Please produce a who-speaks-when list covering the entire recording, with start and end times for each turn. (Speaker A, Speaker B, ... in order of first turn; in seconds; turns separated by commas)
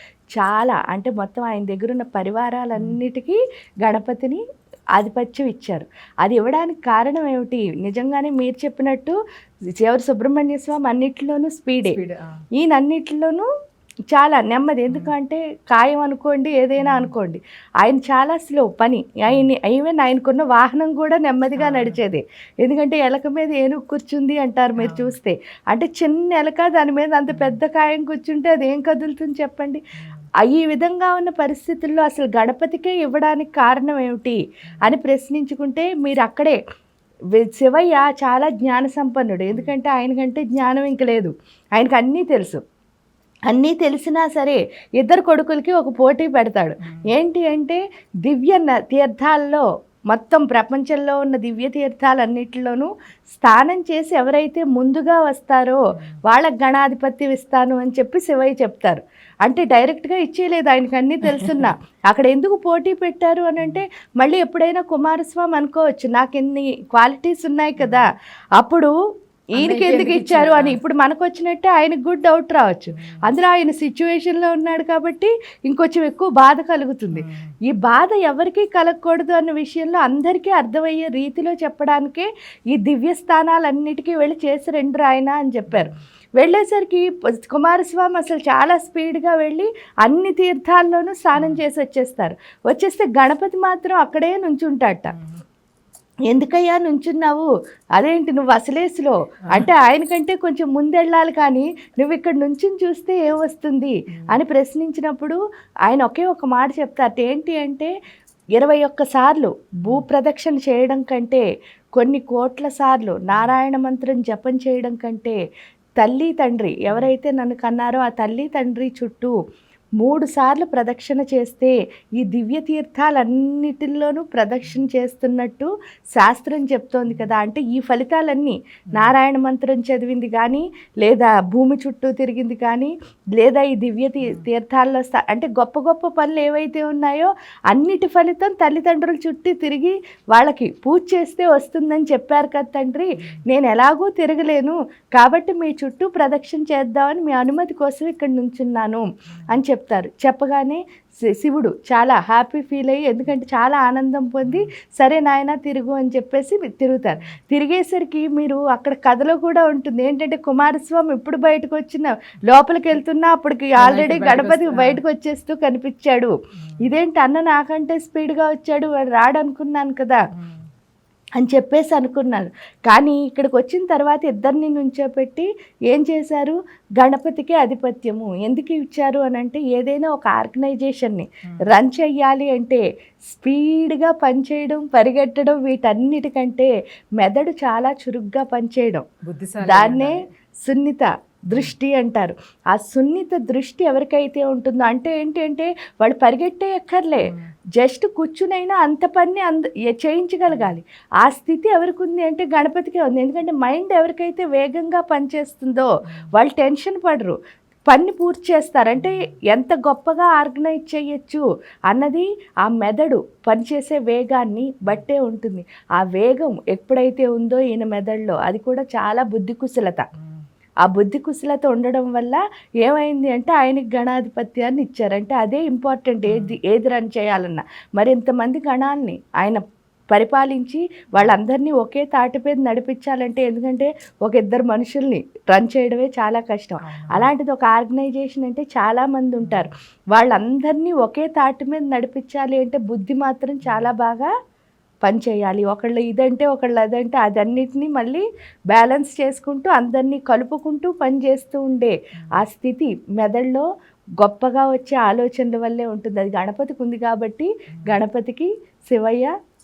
Speaker A: 0.3-4.4, Speaker A: 5.0-9.2, Speaker A: 9.8-12.0, Speaker B: 11.9-12.4, Speaker A: 12.6-13.4, Speaker A: 14.1-29.8, Speaker B: 16.8-17.1, Speaker B: 21.6-22.0, Speaker B: 24.8-25.1, Speaker B: 27.3-27.6, Speaker B: 30.0-30.3, Speaker A: 30.4-36.6, Speaker A: 37.4-42.6, Speaker A: 43.5-68.1, Speaker B: 61.2-61.7, Speaker B: 67.8-68.0, Speaker A: 68.6-68.9, Speaker B: 69.6-70.8, Speaker A: 69.6-95.1, Speaker B: 72.9-73.2, Speaker B: 77.1-77.5, Speaker B: 85.7-86.0, Speaker B: 91.4-91.6, Speaker B: 95.1-95.4, Speaker A: 96.3-107.9, Speaker A: 108.6-111.4, Speaker A: 111.9-115.4, Speaker A: 116.0-119.3, Speaker A: 120.0-170.2, Speaker B: 149.3-149.6, Speaker B: 154.4-154.7, Speaker B: 163.8-165.0, Speaker B: 166.6-166.9, Speaker B: 170.3-170.7, Speaker A: 171.4-189.0, Speaker B: 189.2-190.2, Speaker A: 189.6-207.3, Speaker B: 200.5-200.7, Speaker B: 206.1-206.3, Speaker A: 207.9-220.0, Speaker B: 209.0-209.3, Speaker B: 220.1-220.4, Speaker A: 220.8-229.6, Speaker B: 226.3-226.6, Speaker A: 230.1-244.3, Speaker B: 236.8-237.3, Speaker B: 239.4-239.7, Speaker B: 243.6-243.9, Speaker A: 245.0-253.7, Speaker A: 254.2-259.3